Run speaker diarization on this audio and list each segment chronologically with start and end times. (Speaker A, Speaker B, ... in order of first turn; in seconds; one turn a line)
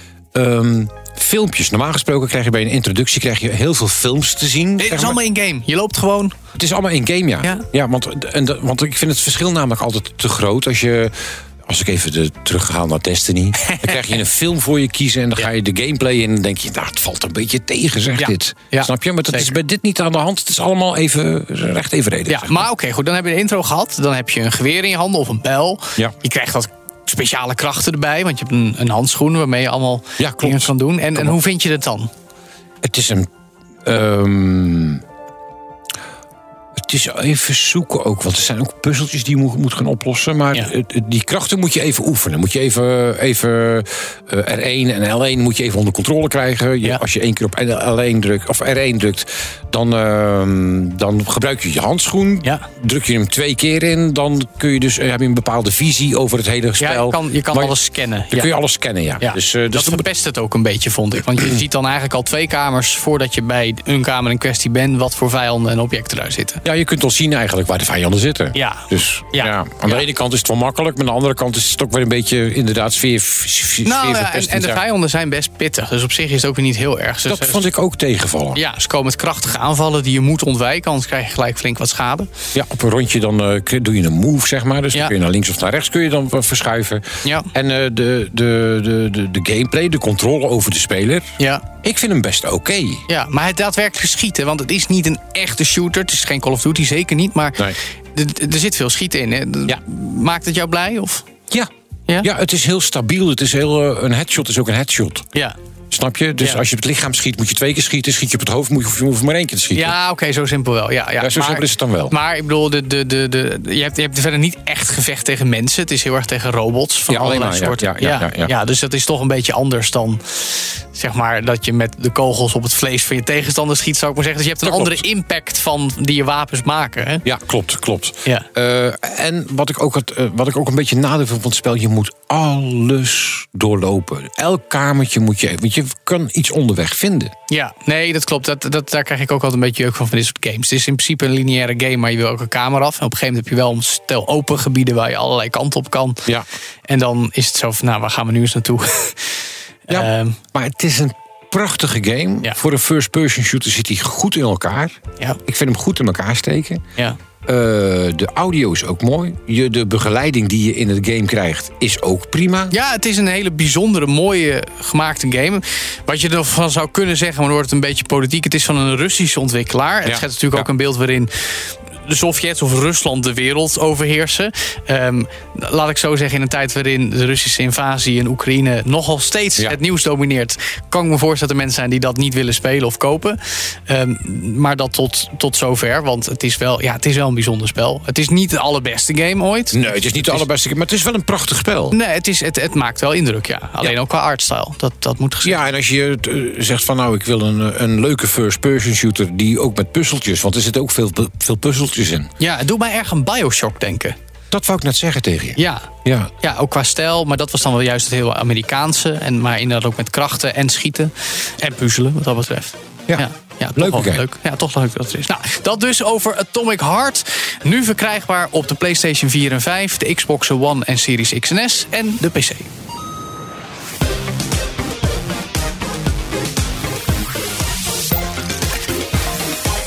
Speaker A: 0.3-5.2
Speaker B: 4.8-6.3
Speaker A: 6.5-22.6
Speaker B: 13.7-14.2
Speaker B: 18.2-19.5
Speaker B: 22.3-32.1
Speaker A: 30.2-31.4
Speaker A: 32.8-33.3
Speaker A: 33.8-35.0
Speaker A: 36.8-57.7
Speaker B: 56.8-58.5
Speaker A: 58.3-60.0
Speaker B: 59.2-66.6
Speaker A: 66.6-74.8
Speaker B: 68.5-70.1
Speaker B: 73.8-77.7
Speaker A: 77.2-78.6
Speaker B: 78.5-82.3
Speaker A: 82.5-93.0
Speaker B: 91.4-91.6
Speaker B: 93.1-101.2
Speaker A: 102.2-105.3
Speaker A: 105.9-109.9
Speaker B: 109.7-127.2
Speaker A: 111.2-112.1
Speaker A: 117.1-118.5
Speaker A: 124.6-125.0
Speaker A: 127.2-137.3
Speaker B: 137.5-146.2
Speaker B: 146.9-150.4
Speaker A: 149.9-156.8
Speaker A: 157.4-162.7
Speaker B: 162.7-190.4
Speaker A: 170.0-170.7
Speaker A: 189.7-191.9
Speaker B: 191.9-195.6
Speaker A: 195.4-202.3
Speaker B: 202.4-204.2
Speaker A: 204.5-206.3
Speaker B: 205.6-205.9
Speaker B: 206.4-222.7
Speaker A: 213.1-214.2